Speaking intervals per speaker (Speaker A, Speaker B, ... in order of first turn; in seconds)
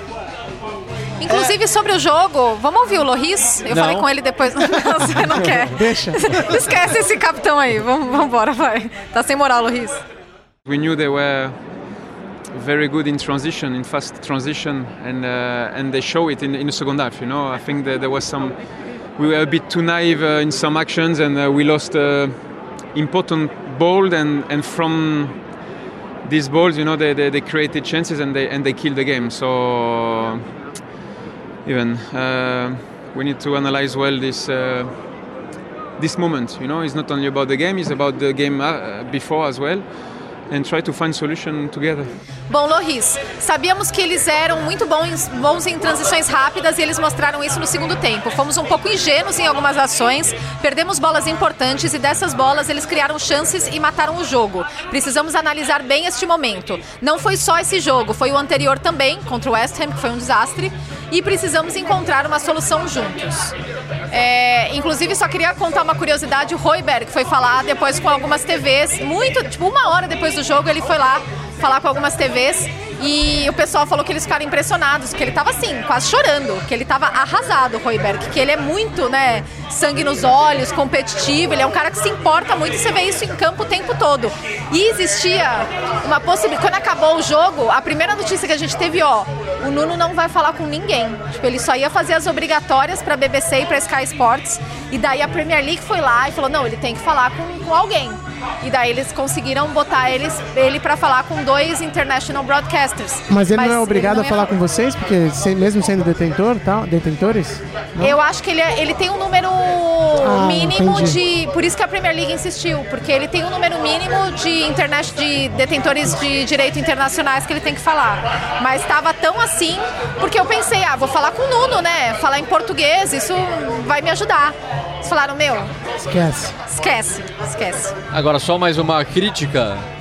Speaker A: 1.2-10.0, 42.5-63.5, 64.1-104.5, 108.0-125.7, 126.7-127.9
Speaker B: 3.7-4.1, 128.1-129.8
Speaker C: 5.4-6.6, 103.3-108.2, 110.2-111.2, 126.0-126.5
Speaker D: 10.6-11.5, 12.5-18.5, 19.2-22.3, 22.9-25.3, 26.2-30.4, 31.6-34.9, 36.0-39.8, 40.5-42.1